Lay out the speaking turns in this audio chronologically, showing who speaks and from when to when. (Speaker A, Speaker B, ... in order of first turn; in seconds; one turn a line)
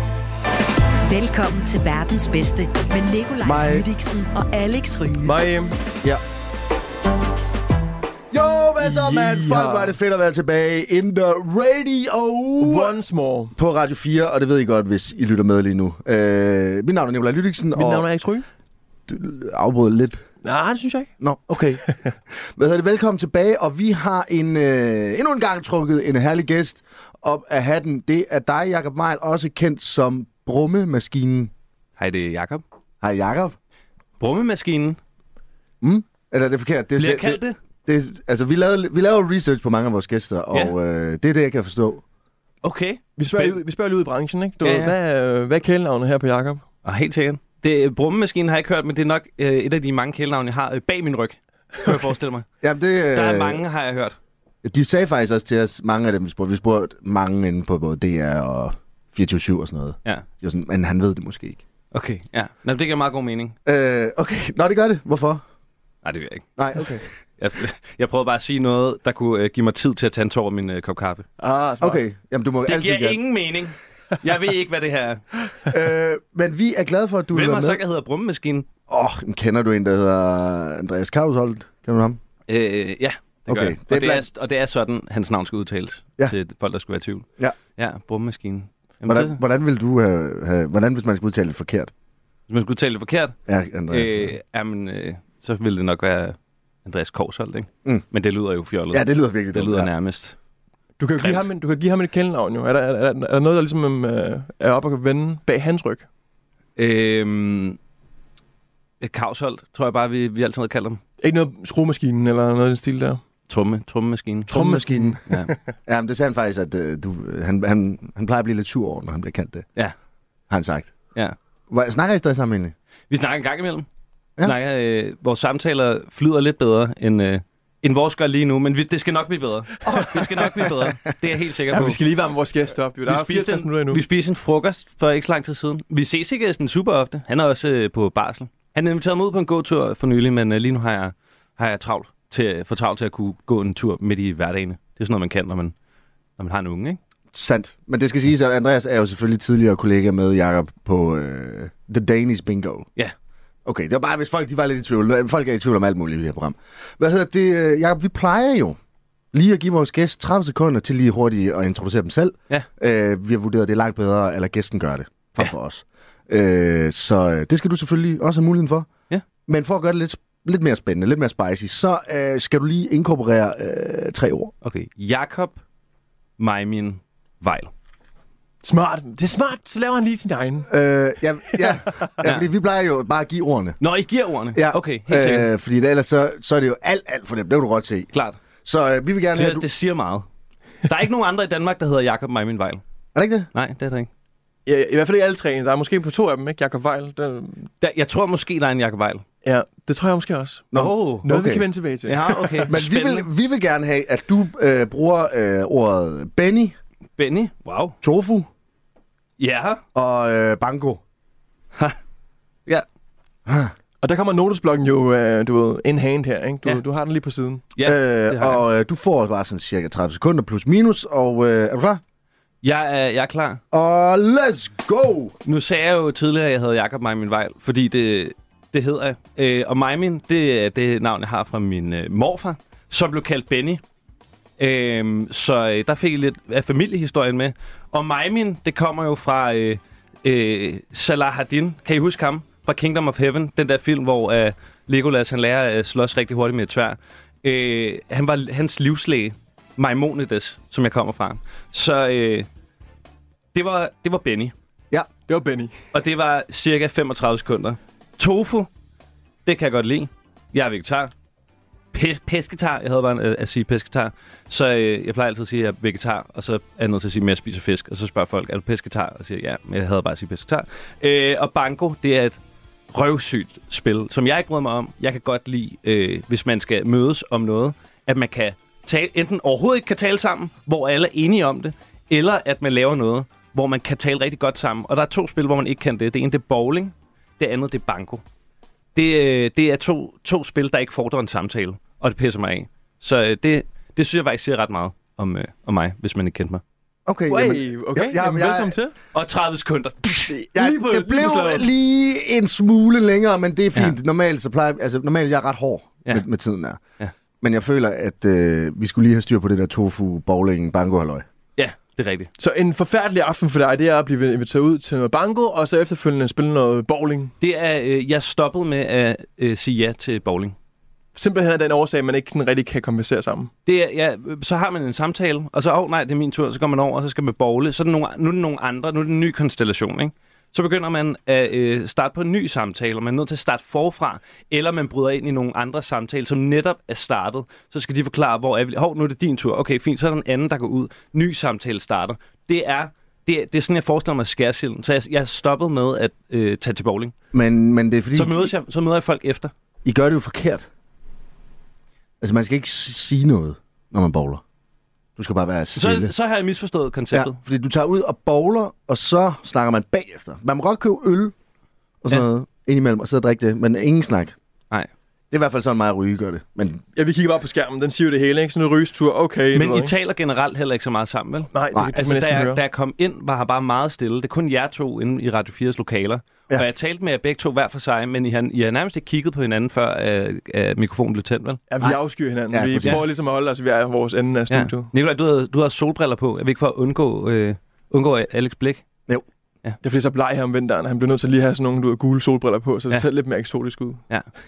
Speaker A: 1.1-5.4
Speaker B: 3.4-3.9
Speaker C: 5.2-5.8
Speaker B: 8.3-12.9
Speaker C: 8.8-9.9
Speaker C: 12.6-13.5
Speaker B: 13.6-18.1
Speaker C: 17.7-18.5
Speaker B: 19.1-20.2
Speaker C: 20.4-21.1
Speaker B: 21.2-31.5
Speaker D: 32.0-32.6
Speaker B: 33.0-33.5
Speaker D: 34.2-35.0
Speaker B: 35.8-42.0
Speaker D: 37.0-37.6
Speaker D: 42.6-43.6
Speaker C: 43.2-46.6
Speaker D: 44.6-44.9
Speaker D: 46.9-52.5
Speaker B: 52.6-53.6
Speaker D: 53.1-54.2
Speaker B: 54.6-61.6
Speaker D: 61.9-63.5
Speaker B: 63.7-65.4
Speaker D: 66.0-66.5
Speaker B: 66.6-67.1
Speaker D: 67.4-71.3
Speaker C: 71.4-72.0
Speaker B: 71.8-73.2
Speaker D: 72.7-75.2
Speaker B: 75.7-77.8
Speaker D: 77.3-78.7
Speaker B: 78.9-82.2
Speaker D: 82.5-89.4
Speaker B: 83.5-84.3
Speaker B: 89.0-91.9
Speaker D: 92.5-93.4
Speaker B: 93.5-94.3
Speaker D: 93.9-100.4
Speaker B: 98.9-99.9
Speaker C: 101.0-106.1
Speaker D: 101.2-101.5
Speaker D: 106.8-107.8
Speaker D: 109.0-111.0
Speaker C: 111.2-113.2
Speaker D: 113.5-114.8
Speaker C: 114.5-115.6
Speaker B: 114.5-115.2
Speaker D: 115.3-115.5
Speaker B: 115.9-119.7
Speaker B: 120.5-120.9
Speaker B: 121.7-122.7
Speaker D: 123.1-123.9
Speaker D: 124.4-132.0
Speaker B: 129.9-130.9
Speaker C: 131.7-134.0
Speaker D: 133.1-145.7
Speaker D: 146.4-147.0
Speaker B: 147.3-152.9
Speaker B: 153.7-158.8
Speaker B: 159.3-168.9
Speaker B: 169.5-174.5
Speaker D: 174.6-175.6
Speaker D: 176.4-177.7
Speaker C: 178.6-180.7
Speaker B: 180.7-183.8
Speaker D: 183.8-185.5
Speaker B: 184.5-188.1
Speaker D: 188.1-188.4
Speaker B: 188.6-189.7
Speaker D: 189.3-190.3
Speaker D: 190.8-192.8
Speaker B: 193.1-193.5
Speaker D: 193.5-194.1
Speaker C: 194.7-197.7
Speaker D: 197.8-199.2
Speaker C: 199.4-200.7
Speaker B: 200.7-201.7
Speaker D: 200.8-201.3
Speaker C: 201.2-202.7
Speaker D: 202.1-203.3
Speaker B: 202.2-206.8
Speaker D: 207.2-208.0
Speaker B: 208.0-208.5
Speaker D: 209.4-209.8
Speaker B: 209.9-211.0
Speaker B: 213.5-213.7
Speaker C: 214.0-217.7
Speaker D: 217.8-218.6
Speaker B: 217.8-222.0
Speaker D: 222.6-223.6
Speaker B: 223.7-225.3
Speaker D: 225.4-233.8
Speaker D: 234.6-252.5
Speaker D: 253.5-254.5
Speaker C: 255.3-255.7
Speaker D: 255.9-258.7
Speaker D: 259.4-261.1
Speaker D: 261.9-272.4
Speaker D: 272.9-288.2
Speaker D: 288.9-296.6
Speaker B: 297.1-298.8
Speaker C: 297.3-298.9
Speaker D: 299.1-300.3
Speaker C: 300.3-301.7
Speaker B: 300.6-306.8
Speaker B: 307.4-311.3
Speaker D: 311.6-312.3
Speaker C: 312.4-317.3
Speaker D: 317.4-320.6
Speaker C: 321.1-323.5
Speaker D: 323.7-347.1
Speaker B: 347.3-348.5
Speaker D: 348.1-349.5
Speaker B: 349.9-350.7
Speaker B: 352.2-354.4
Speaker B: 355.2-356.1
Speaker D: 355.8-357.4
Speaker B: 357.1-361.3
Speaker B: 362.0-364.4
Speaker B: 365.3-366.8
Speaker C: 367.0-369.9
Speaker D: 369.5-381.6
Speaker C: 371.5-372.6
Speaker B: 371.7-372.0
Speaker C: 381.7-384.9
Speaker B: 382.5-383.1
Speaker D: 384.5-388.9
Speaker C: 389.8-394.1